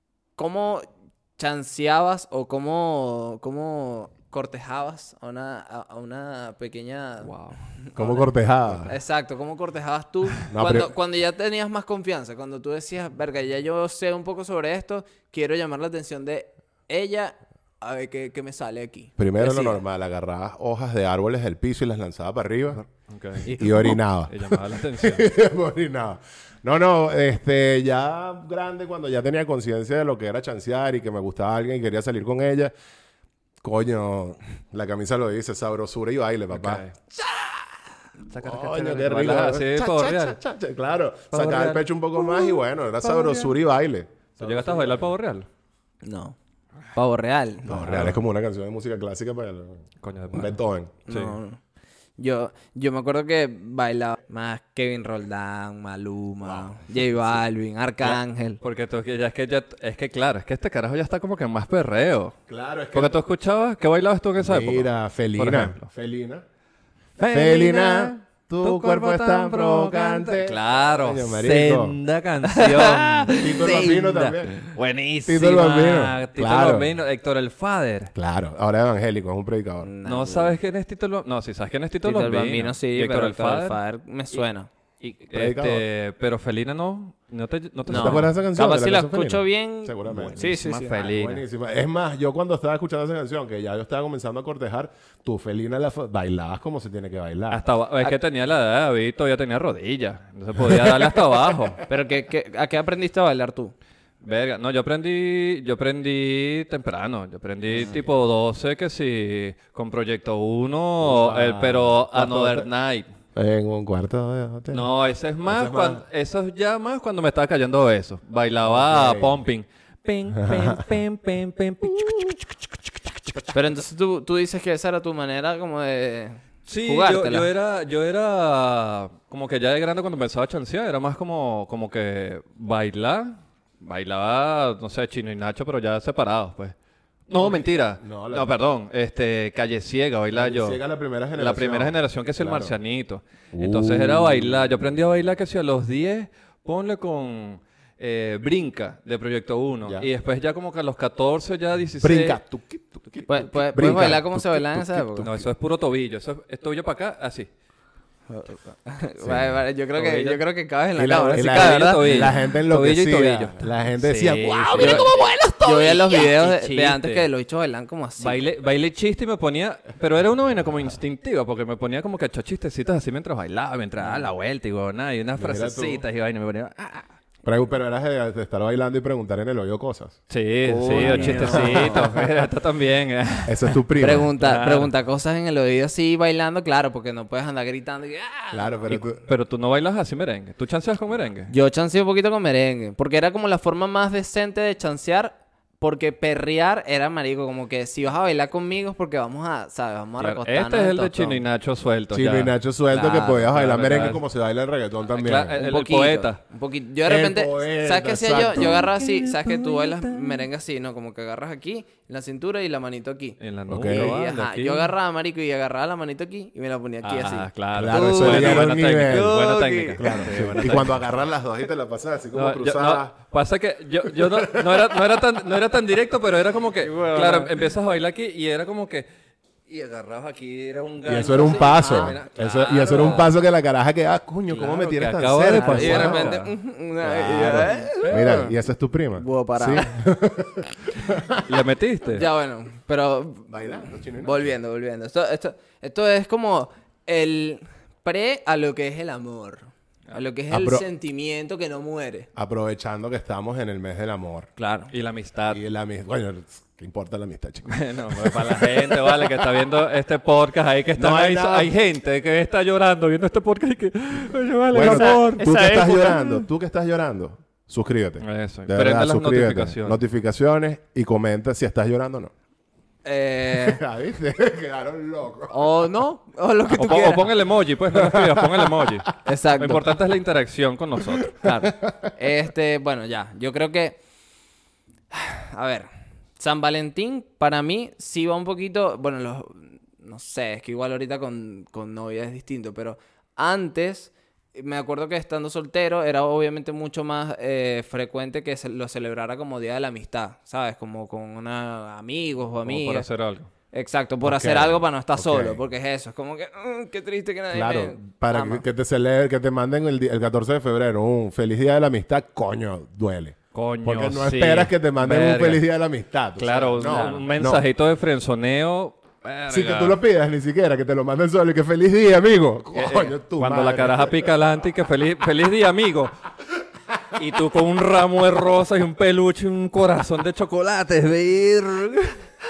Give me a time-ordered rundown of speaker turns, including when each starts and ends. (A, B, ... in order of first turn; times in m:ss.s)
0:00.4-0:19.8 A
0:07.2-0:07.6 B
0:08.0-0:08.9 C
0:10.5-0:10.9 C
0:19.2-0:22.8 C
0:22.9-0:23.5 B
0:23.4-0:24.0 A
0:23.4-0:32.7 C
0:24.3-0:25.3 B
0:33.6-0:36.8 C
0:36.5-0:37.0 B
0:38.3-0:40.4 B
0:38.4-0:45.1 C
0:41.3-0:43.5 B
0:44.4-0:45.5 B
0:46.0-0:46.4 A
0:46.9-0:48.1 A
0:47.7-0:50.9 C
0:47.7-0:48.2 B
0:50.0-0:50.6 B
0:51.1-0:51.6 A
0:51.1-0:51.4 B
0:52.2-0:58.6 A
0:56.4-0:57.0 C
0:58.6-1:02.4 B
1:02.5-1:03.2 C
1:02.9-1:05.9 B
1:04.4-1:06.4 C
1:07.2-1:18.1 B
1:07.3-1:12.0 C
1:12.5-1:14.7 A
1:13.4-1:14.6 C
1:15.2-1:16.9 C
1:18.1-1:19.9 C
1:19.8-1:20.6 A
1:20.0-1:23.8 B
1:22.0-1:24.7 A
1:25.0-1:28.3 B
1:25.3-1:25.8 C
1:27.9-1:37.6 C
1:27.9-1:31.0 A
1:30.1-1:31.4 B
1:37.5-1:41.8 B
1:40.6-1:41.1 C
1:41.9-1:43.7 A
1:44.2-1:53.1 B
1:47.7-1:48.0 A
1:51.0-1:52.7 C
1:53.4-1:54.9 C
1:54.7-2:03.5 B
1:55.4-1:56.0 C
1:58.6-1:59.4 C
2:00.3-2:00.8 C
2:03.5-2:07.5 A
2:06.6-2:16.8 B
2:17.3-2:20.8 B
2:17.3-2:18.5 C
2:20.3-2:22.8 C
2:21.3-2:32.4 B
2:23.5-2:24.8 C
2:32.0-2:35.5 C
2:33.3-2:35.3 A
2:35.2-2:37.5 B
2:38.3-2:42.3 A
2:39.2-2:39.6 C
2:39.9-2:40.4 B
2:41.0-2:45.3 C
2:41.3-2:47.3 B
2:44.7-2:48.4 A
2:48.2-2:57.1 B
2:54.0-2:54.3 A
2:55.4-2:56.0 C
2:57.4-3:00.2 C
3:00.3-3:04.9 B
3:00.6-3:02.1 A
3:00.8-3:02.3 C
3:03.4-3:04.3 C
3:04.0-3:08.9 A
3:08.5-3:09.2 C
3:08.9-3:11.5 B
3:11.5-3:21.4 A
3:20.2-3:22.6 B
3:22.1-3:25.6 C
3:22.9-3:23.5 A
3:23.4-3:24.2 B
3:25.1-3:26.4 B
3:25.6-3:40.8 A
3:27.1-3:28.9 C
3:28.6-3:30.4 B
3:33.4-3:34.9 B
3:33.7-3:34.1 C
3:37.0-3:41.1 B
3:37.7-3:39.4 C
3:40.0-3:43.1 C
3:42.3-3:49.1 B
3:44.1-3:45.2 C
3:46.8-3:47.5 A
3:49.7-3:53.3 B
3:51.0-3:56.3 C
3:51.2-3:53.3 A
3:54.5-3:56.5 B
3:55.5-3:58.4 A
3:57.0-4:01.6 C
3:57.2-3:58.5 B
3:59.2-3:59.9 A
4:01.4-4:02.3 B
4:02.1-4:12.3 A
4:03.5-4:04.5 C
4:10.5-4:10.8 C
4:12.4-4:14.5 C
4:14.6-4:14.9 A
4:14.9-4:15.6 B
4:15.5-4:19.5 C
4:17.7-4:26.2 B
4:21.0-4:21.7 C
4:24.7-4:32.3 C
4:24.8-4:26.4 A
4:28.2-4:30.0 B
4:33.0-4:33.8 A
4:33.5-4:35.5 C
4:35.5-4:37.3 A
4:36.7-4:41.4 B
4:37.9-4:39.0 C
4:39.2-4:39.8 A
4:41.4-4:44.0 A
4:45.1-5:03.1 A
5:02.6-5:03.5 B
5:03.7-5:08.6 A
5:04.2-5:05.6 C
5:07.5-5:17.6 C
5:13.5-5:15.6 B
5:16.4-5:20.0 B
5:16.8-5:17.3 A
5:19.5-5:24.3 C
5:22.7-5:26.1 B
5:27.1-5:32.2 B